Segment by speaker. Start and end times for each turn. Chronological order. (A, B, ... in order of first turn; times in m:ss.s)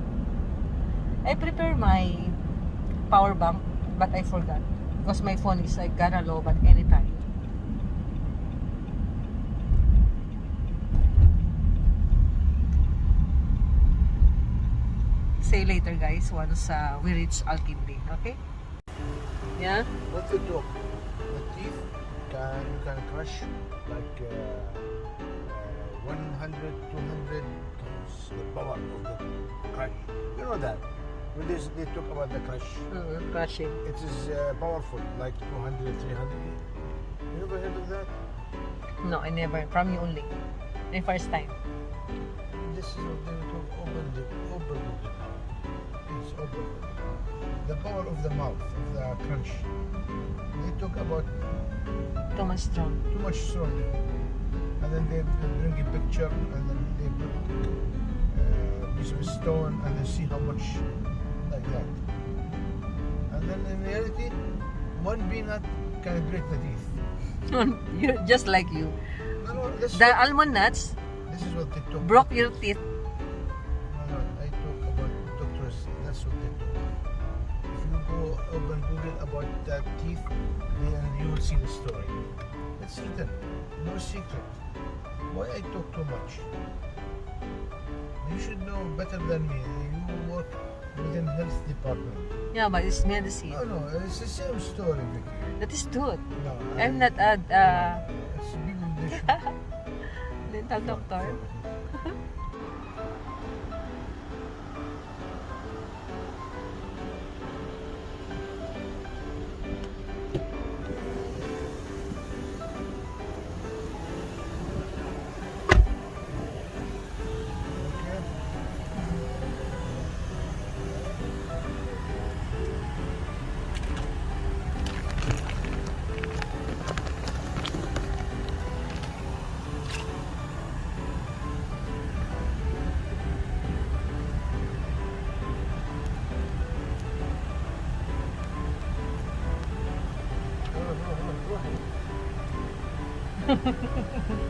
0:01.2-0:02.4 A
0:03.1-0:07.2 A
0:15.4-0:18.4 A
0:19.6-0:19.9 A
0:20.1-0:20.8 B
0:21.3-0:24.9 B
0:25.4-0:32.9 B
0:32.9-0:33.8 A
0:33.8-0:36.6 B
0:37.3-0:38.1 B
0:39.0-0:40.3 A
0:40.9-0:41.6 A
0:42.5-0:45.5 B
0:46.0-0:47.0 B
0:47.6-0:49.7 B
0:50.5-0:51.3 B
0:52.3-0:53.0 A
0:53.1-0:54.0 B
0:54.8-0:57.8 B
0:58.3-1:00.8 B
1:01.4-1:01.9 B
1:03.3-1:04.4 B
1:04.9-1:07.0 B
1:07.5-1:09.0 A
1:09.4-1:10.2 B
1:09.9-1:11.0 A
1:11.3-1:12.6 B
1:12.0-1:12.8 A
1:13.9-1:16.9 B
1:17.7-1:22.2 B
1:22.8-1:24.5 B
1:25.3-1:26.5 B
1:28.2-1:32.3 B
1:32.5-1:33.6 A
1:33.5-1:35.5 B
1:35.6-1:36.2 A
1:36.3-1:39.4 B
1:36.8-1:38.0 A
1:39.3-1:39.5 A
1:40.4-1:41.4 A
1:40.8-1:41.7 B
1:57.7-1:58.3 B
2:20.7-2:21.8 B
2:23.5-2:23.9 A